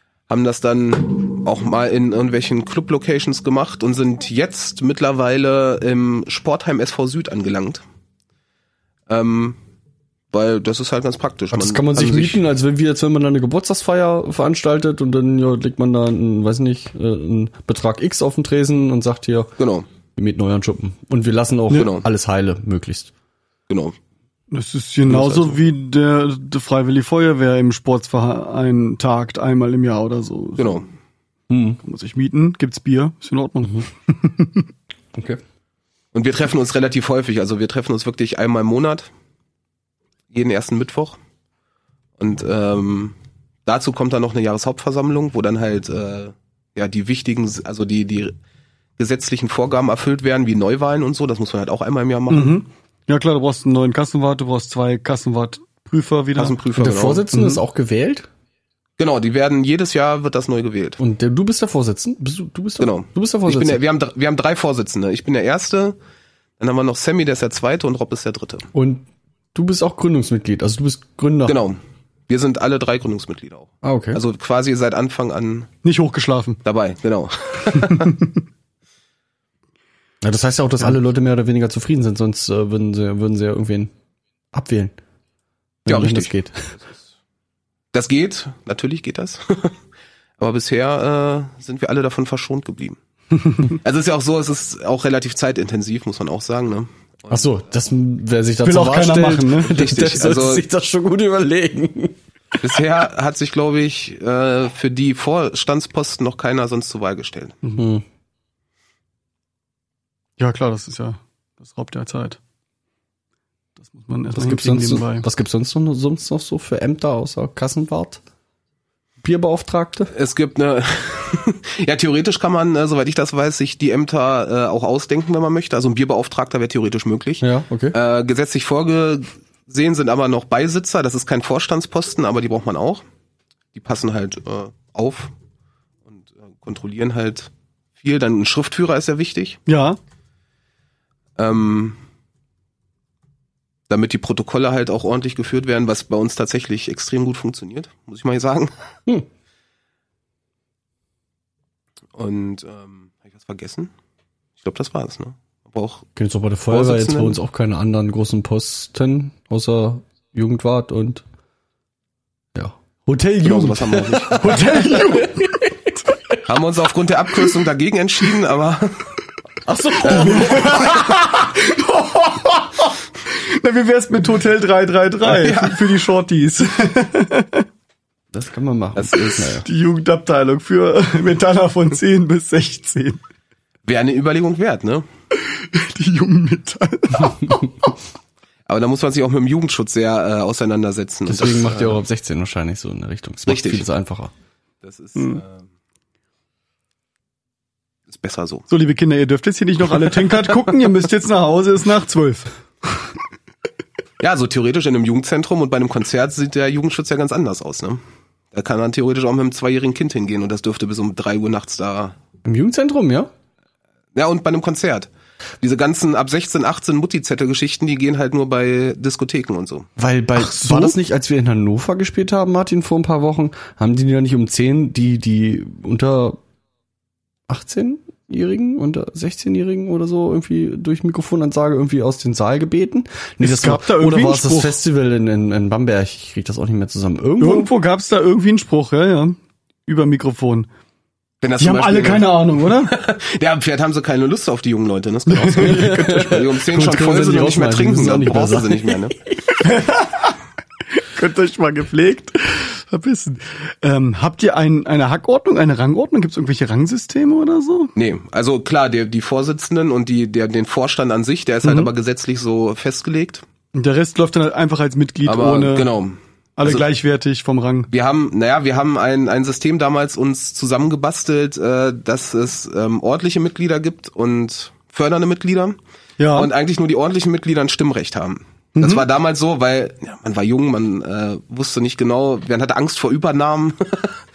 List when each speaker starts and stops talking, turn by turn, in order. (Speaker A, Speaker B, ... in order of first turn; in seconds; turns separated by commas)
Speaker A: 0.3-7.8, Speaker A: 9.1-9.6, Speaker A: 10.3-12.4, Speaker B: 11.5-19.5, Speaker A: 19.6-19.9, Speaker B: 20.2-23.1, Speaker A: 21.7-22.1, Speaker A: 23.7-23.9, Speaker C: 24.5-30.8, Speaker A: 25.1-25.6, Speaker A: 30.6-30.9, Speaker B: 31.5-31.8, Speaker C: 31.8-34.7, Speaker B: 35.1-35.4, Speaker A: 36.1-39.1, Speaker A: 40.3-41.2, Speaker A: 42.2-48.3, Speaker A: 49.0-52.6, Speaker C: 52.3-56.6, Speaker A: 56.4-57.2, Speaker B: 56.8-58.3, Speaker C: 57.3-57.6, Speaker A: 59.0-61.0, Speaker B: 61.0-63.8, Speaker A: 62.8-66.0, Speaker A: 66.6-68.7, Speaker B: 68.7-71.6, Speaker A: 71.5-75.7, Speaker B: 73.8-74.2, Speaker C: 75.8-76.6, Speaker A: 76.6-78.2, Speaker B: 80.2-83.9, Speaker B: 84.5-84.9, Speaker B: 85.9-86.7, Speaker A: 85.9-86.3, Speaker A: 87.9-89.8, Speaker A: 90.4-93.0, Speaker A: 93.7-97.6, Speaker B: 97.3-102.2, Speaker C: 98.6-99.7, Speaker A: 99.7-100.6, Speaker A: 102.6-107.6, Speaker B: 107.8-108.0, Speaker C: 110.4-112.4, Speaker C: 113.8-115.2, Speaker B: 114.3-118.2, Speaker B: 119.2-120.1, Speaker A: 120.1-133.0, Speaker B: 127.4-127.9, Speaker A: 133.7-135.3, Speaker A: 136.1-139.6, Speaker C: 139.7-140.0, Speaker A: 141.4-142.0, Speaker A: 143.9-148.7, Speaker A: 152.2-153.9, Speaker A: 154.6-156.1, Speaker B: 156.2-161.2, Speaker A: 156.7-157.4, Speaker B: 162.6-165.7, Speaker A: 163.4-164.9, Speaker C: 164.4-165.6, Speaker A: 166.4-169.1, Speaker B: 169.7-171.1, Speaker C: 170.0-177.7, Speaker A: 175.3-175.8, Speaker B: 178.3-179.7, Speaker A: 178.9-179.6, Speaker C: 179.7-183.2, Speaker A: 183.9-185.1, Speaker C: 185.4-187.9, Speaker A: 188.7-192.0, Speaker B: 191.3-194.3, Speaker A: 193.4-193.9, Speaker A: 194.8-195.7, Speaker A: 198.1-198.7, Speaker C: 198.7-203.1, Speaker A: 204.2-208.0, Speaker A: 208.5-212.2, Speaker B: 212.4-213.3, Speaker A: 214.2-215.1, Speaker A: 215.6-219.9, Speaker B: 220.0-226.4, Speaker C: 220.4-220.9, Speaker B: 227.5-237.7, Speaker C: 233.4-234.8, Speaker C: 237.4-240.7, Speaker A: 241.4-249.2, Speaker C: 241.6-242.9, Speaker C: 245.3-246.3, Speaker B: 245.6-249.1, Speaker C: 249.6-250.3, Speaker C: 251.0-257.9, Speaker A: 257.9-263.4, Speaker C: 261.6-261.9, Speaker C: 263.8-265.9, Speaker A: 265.2-266.8, Speaker C: 266.6-267.9, Speaker A: 267.9-275.8, Speaker C: 276.2-276.5, Speaker A: 276.3-284.2, Speaker C: 278.8-279.0